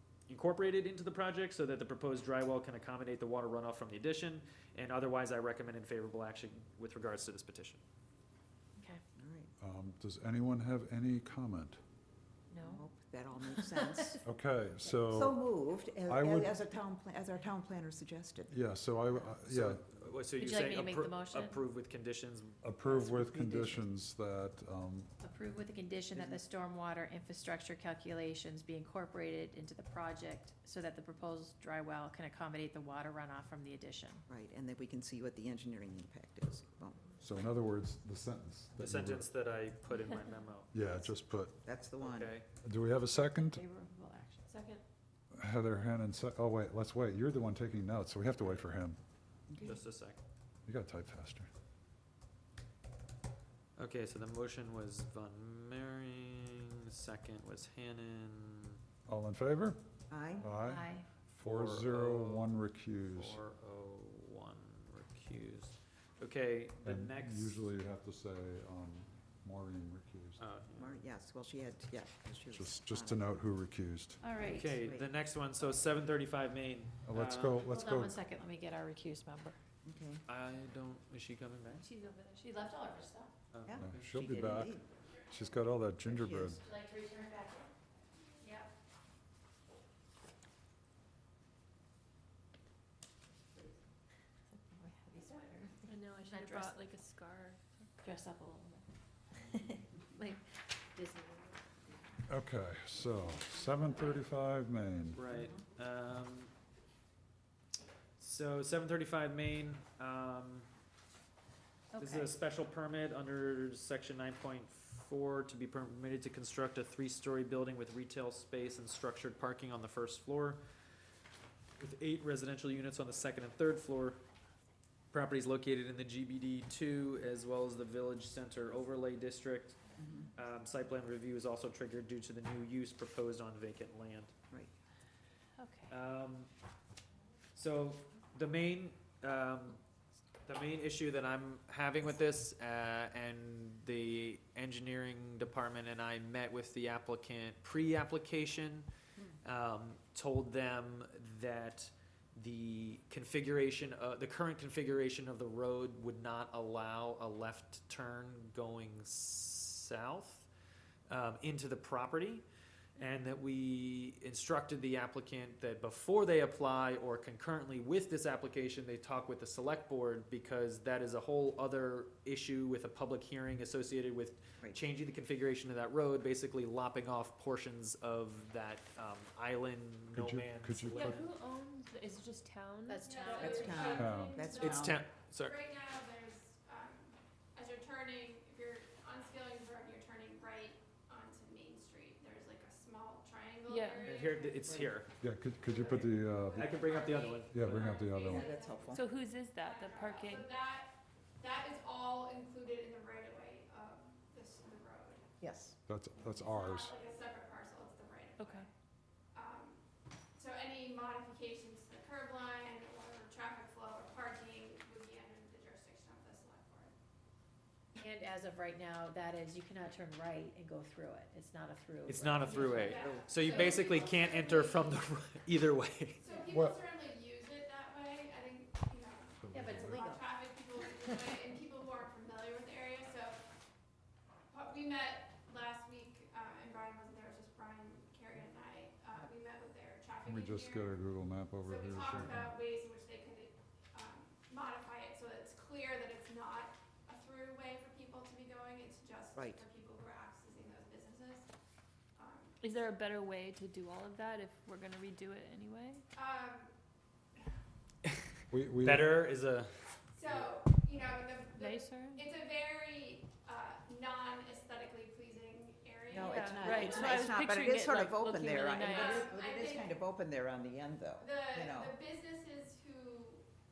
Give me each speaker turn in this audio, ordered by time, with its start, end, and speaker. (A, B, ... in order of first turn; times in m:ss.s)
0:00.3-0:07.8 A
0:09.2-0:09.5 B
0:09.6-0:11.8 C
0:12.5-0:14.2 D
0:12.6-0:14.2 B
0:14.2-0:15.4 C
0:15.1-0:18.5 B
0:16.1-0:16.6 C
0:18.5-0:19.8 C
0:19.5-0:22.6 A
0:20.4-0:21.6 D
0:22.6-0:25.1 C
0:23.3-0:23.7 B
0:25.2-0:34.2 D
0:26.1-0:26.4 B
0:34.3-0:37.1 B
0:37.2-0:39.3 C
0:38.8-0:40.7 A
0:40.7-0:41.6 C
0:41.6-0:42.3 B
0:42.0-0:42.5 A
0:42.6-0:43.6 C
0:43.4-0:44.8 D
0:44.5-0:44.7 E
0:45.3-0:49.0 C
0:49.5-0:49.8 B
0:49.6-0:50.2 A
0:50.7-0:51.5 C
0:53.8-0:58.8 A
0:59.1-0:59.8 C
1:00.1-1:00.5 B
1:00.4-1:03.4 C
1:00.6-1:01.1 D
1:01.4-1:07.6 A
1:06.8-1:10.4 C
1:10.4-1:11.0 A
1:10.8-1:13.3 B
1:12.5-1:14.2 C
1:14.2-1:14.8 D
1:14.4-1:17.6 A
1:14.6-1:15.1 B
1:17.1-1:18.2 C
1:17.7-1:19.6 D
1:19.8-1:20.2 B
1:20.3-1:21.9 A
1:21.8-1:22.6 F
1:22.4-1:23.3 D
1:23.5-1:24.1 A
1:23.6-1:24.8 B
1:23.8-1:26.6 C
1:26.0-1:26.6 B
1:26.6-1:27.7 D
1:28.4-1:28.7 D
1:34.5-1:36.9 D
1:35.9-1:37.6 F
1:38.0-1:40.4 D
1:40.9-1:41.6 D
1:42.3-1:45.2 C
1:45.1-1:46.5 A
1:48.2-1:50.7 A
1:51.9-1:52.3 D
1:52.0-2:00.6 A
2:01.8-2:04.2 A
2:05.1-2:09.8 A
2:10.0-2:10.3 B
2:10.4-2:14.3 A
2:15.6-2:15.9 D
2:15.9-2:16.5 A
2:17.6-2:19.8 A
2:20.4-2:28.9 A
2:29.4-2:40.5 A
2:41.1-2:42.4 A
2:43.0-3:01.2 A
3:00.1-3:01.2 C
3:01.0-3:04.4 F
3:02.9-3:03.6 D
3:03.1-3:14.7 E
3:03.3-3:05.0 B
3:03.9-3:04.4 C
3:04.5-3:05.6 A
3:13.7-3:14.2 F
3:14.1-3:15.2 A
3:15.2-3:16.9 C
3:15.6-3:25.2 E
3:15.7-3:18.0 A
3:17.5-3:18.5 C
3:18.2-3:19.0 B
3:18.9-3:20.5 F
3:25.4-3:25.8 B
3:25.9-3:26.9 C
3:26.2-3:28.7 E
3:28.4-3:28.7 F
3:29.3-3:29.8 E
3:30.4-3:36.9 E
3:38.0-3:43.0 D
3:42.1-3:46.3 A
3:42.4-3:45.0 E
3:42.9-3:43.6 B
3:46.2-3:53.4 E
3:46.5-3:46.8 C
3:49.4-3:50.0 C
3:49.5-3:50.2 D
3:54.5-4:01.0 E
4:00.2-4:02.5 C
4:01.6-4:11.5 E
4:02.1-4:02.3 A
4:09.4-4:09.6 B
4:12.2-4:12.9 E
4:12.6-4:16.0 F
4:16.2-4:16.7 E
4:18.5-4:19.1 C
4:18.8-4:20.5 A
4:20.1-4:27.3 E
4:21.6-4:22.2 F
4:26.1-4:31.9 B
4:26.2-4:29.0 F
4:27.4-4:29.3 D
4:28.8-4:30.0 E
4:31.2-4:33.4 E